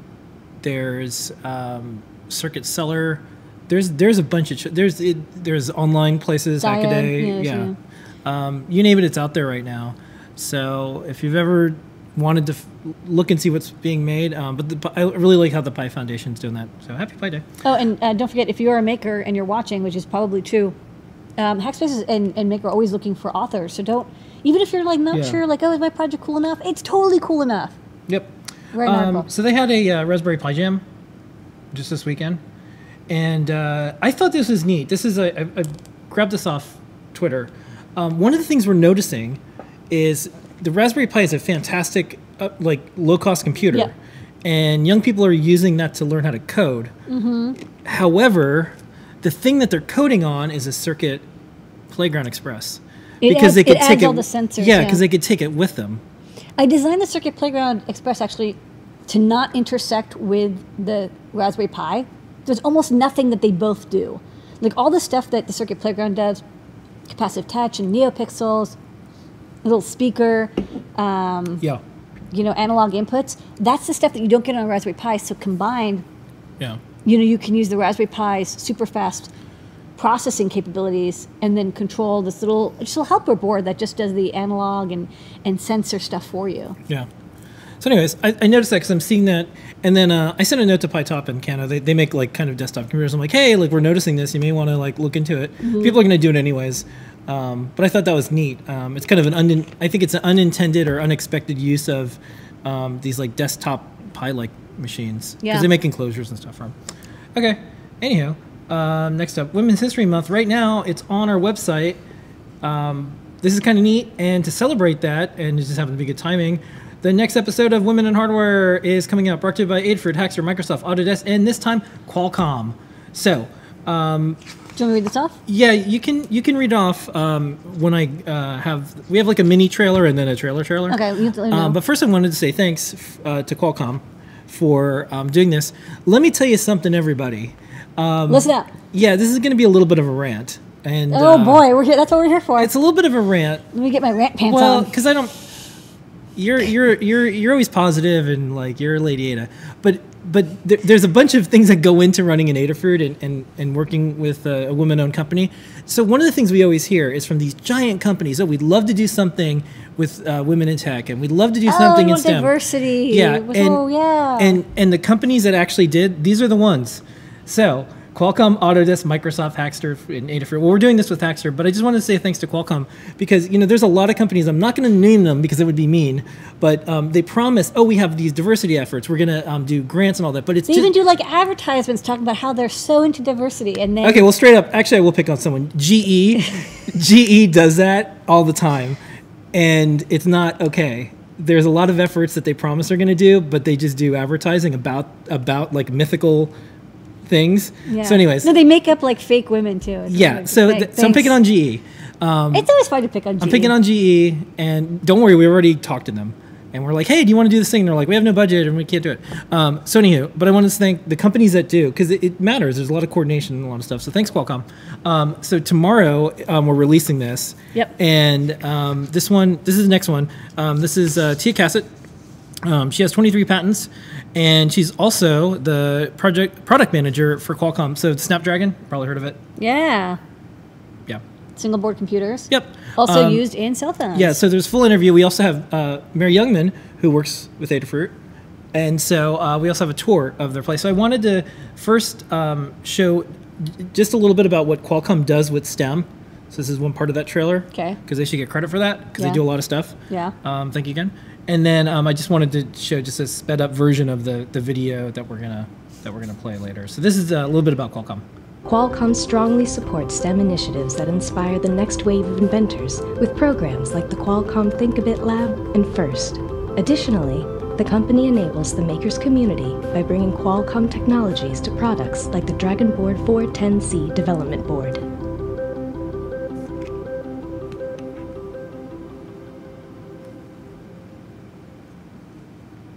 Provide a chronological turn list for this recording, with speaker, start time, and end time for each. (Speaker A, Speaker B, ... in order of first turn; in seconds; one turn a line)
Speaker A: 0.6-7.7
Speaker B: 6.6-7.8
Speaker A: 8.2-17.5
Speaker B: 17.6-20.8
Speaker B: 21.4-27.8
Speaker A: 25.1-25.4
Speaker A: 28.1-30.8
Speaker B: 28.7-29.3
Speaker A: 31.7-32.4
Speaker A: 33.1-39.4
Speaker A: 39.9-43.9
Speaker A: 44.4-46.9
Speaker B: 47.1-47.6
Speaker A: 47.9-51.2
Speaker A: 51.9-56.0
Speaker B: 53.2-55.0
Speaker B: 56.6-58.6
Speaker B: 59.1-66.4
Speaker B: 67.1-68.8
Speaker B: 69.7-71.6
Speaker B: 72.3-76.0
Speaker B: 77.0-79.3
Speaker B: 80.0-86.8
Speaker A: 87.8-106.7
Speaker B: 95.6-96.0
Speaker A: 107.4-112.0
Speaker A: 112.6-124.4
Speaker B: 124.8-125.4
Speaker A: 125.5-141.6
Speaker B: 130.9-131.8
Speaker B: 138.3-138.7
Speaker B: 141.1-142.7
Speaker A: 142.6-143.7
Speaker B: 143.7-144.9
Speaker A: 144.5-145.3
Speaker A: 146.4-162.5
Speaker B: 161.7-164.6
Speaker A: 163.1-163.8
Speaker A: 164.4-180.9
Speaker B: 180.7-184.2
Speaker A: 184.0-189.0
Speaker A: 189.5-196.5
Speaker A: 197.3-198.5
Speaker B: 197.9-201.3
Speaker A: 200.1-202.7
Speaker B: 202.5-203.7
Speaker A: 203.4-221.9
Speaker A: 222.6-229.4
Speaker B: 229.6-230.2
Speaker B: 231.6-234.4
Speaker A: 232.5-233.4
Speaker A: 234.2-238.1
Speaker A: 238.7-258.2
Speaker C: 258.6-275.1